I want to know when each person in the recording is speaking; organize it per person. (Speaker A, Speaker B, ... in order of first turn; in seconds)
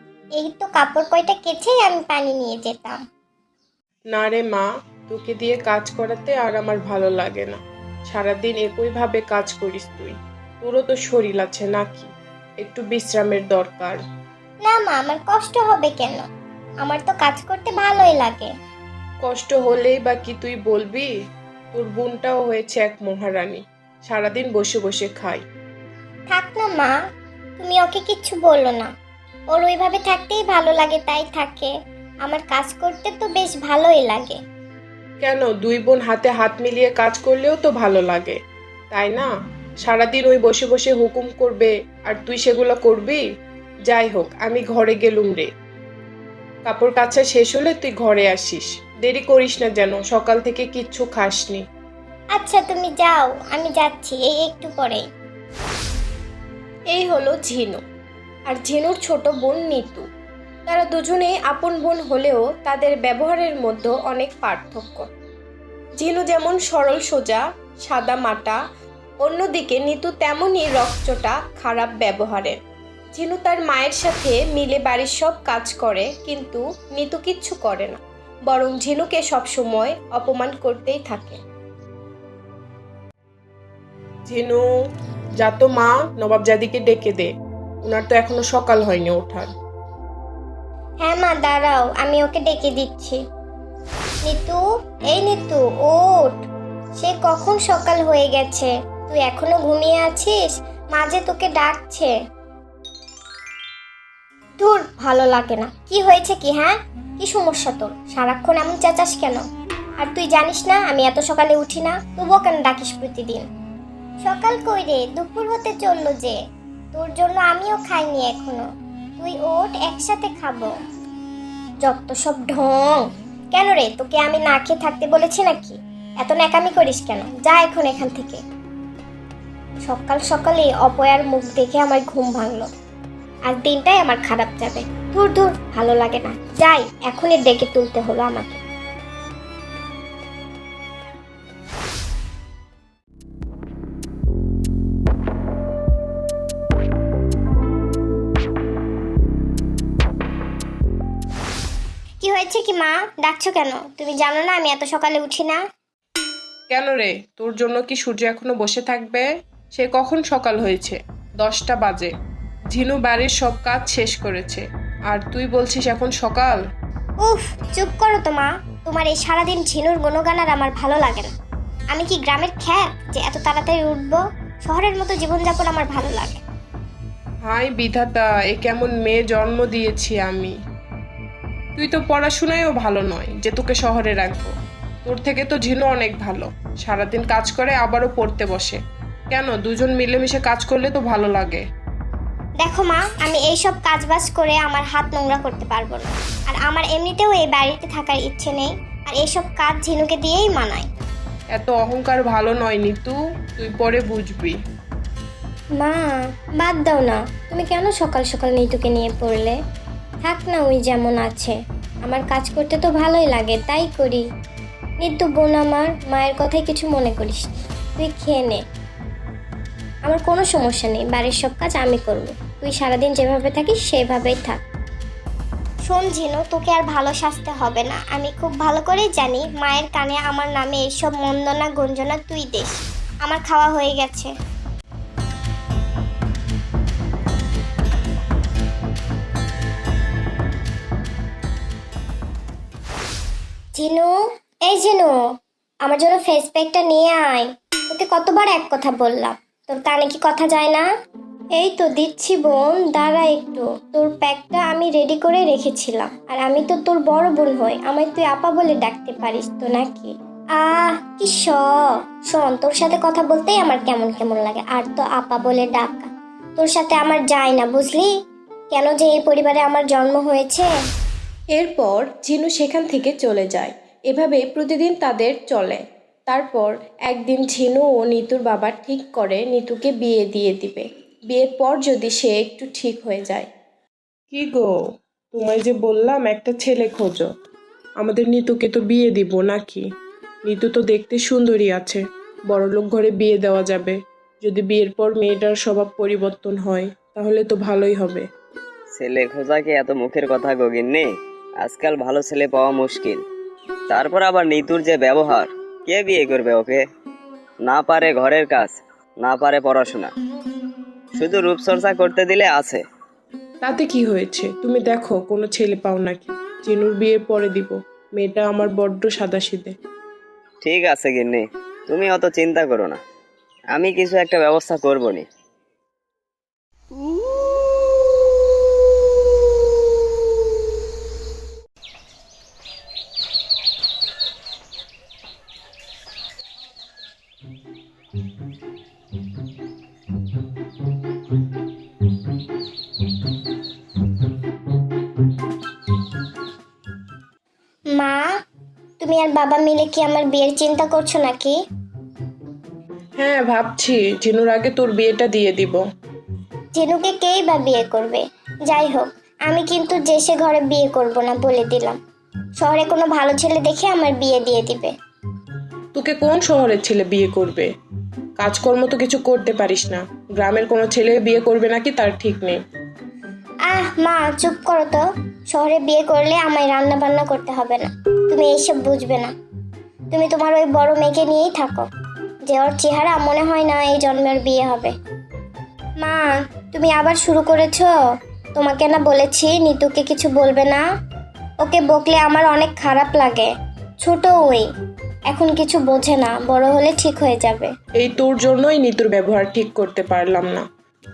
Speaker A: 0.3-3.0, 14.6-16.2, 16.8-18.5, 26.3-26.9, 27.6-28.9, 29.5-31.7, 32.2-34.4, 52.3-55.0, 91.0-93.2, 94.2-96.4, 97.0-102.1, 104.6-109.4, 110.0-113.4, 114.2-116.4, 116.9-118.6, 119.2-120.7, 121.8-128.4, 129.8-132.7, 133.5-138.6, 152.2-155.6, 167.2-171.3, 171.9-176.4, 192.6-200.9, 205.8-209.6, 210.2-214.2, 215.0-218.6, 220.1-224.6, 225.8-234.3, 243.7-245.2, 245.8-250.8, 251.5-268.1, 268.7-270.7, 347.9-348.3, 349.0-351.6, 356.7-362.0, 362.6-364.9, 373.7-379.3, 380.1-381.9, 382.4-384.9, 386.0-387.9, 388.5-390.8, 391.6-394.7, 395.3-397.7
Speaker B: 4.1-14.0, 19.2-21.1, 21.7-25.4, 35.2-38.4, 38.9-39.3, 39.8-43.2, 43.9-45.5, 46.6-51.6, 57.2-57.8, 58.8-59.8, 60.7-65.0, 66.0-67.4, 67.9-68.4, 69.8-70.6, 71.6-72.5, 73.2-76.5, 77.5-78.0, 78.6-79.0, 80.7-81.0, 84.2-84.7, 85.4-87.3, 87.8-89.5, 156.7-162.1, 162.7-166.6, 177.4-180.5, 181.8-184.5, 185.0-191.6, 201.5-204.6, 271.6-273.6, 274.6-275.5, 276.3-276.6, 277.3-277.9, 279.2-279.6, 284.3-284.8, 285.3-287.3, 288.0-289.8, 290.4-298.2, 313.6-319.7, 353.2-355.8, 365.9-367.7, 368.4-372.6, 398.0-400.6
Speaker C: 56.9-57.4, 58.7-60.0, 60.7-64.6, 66.0-66.4, 69.9-72.1, 73.2-74.4, 75.0-76.3, 77.0-77.7, 78.8-81.2, 272.4-275.7, 276.3-278.5, 279.1-280.5, 281.4-283.4
Speaker D: 298.9-301.1, 301.6-303.2, 303.9-306.8, 307.6-310.1, 311.1-312.8, 320.6-323.0, 323.7-325.2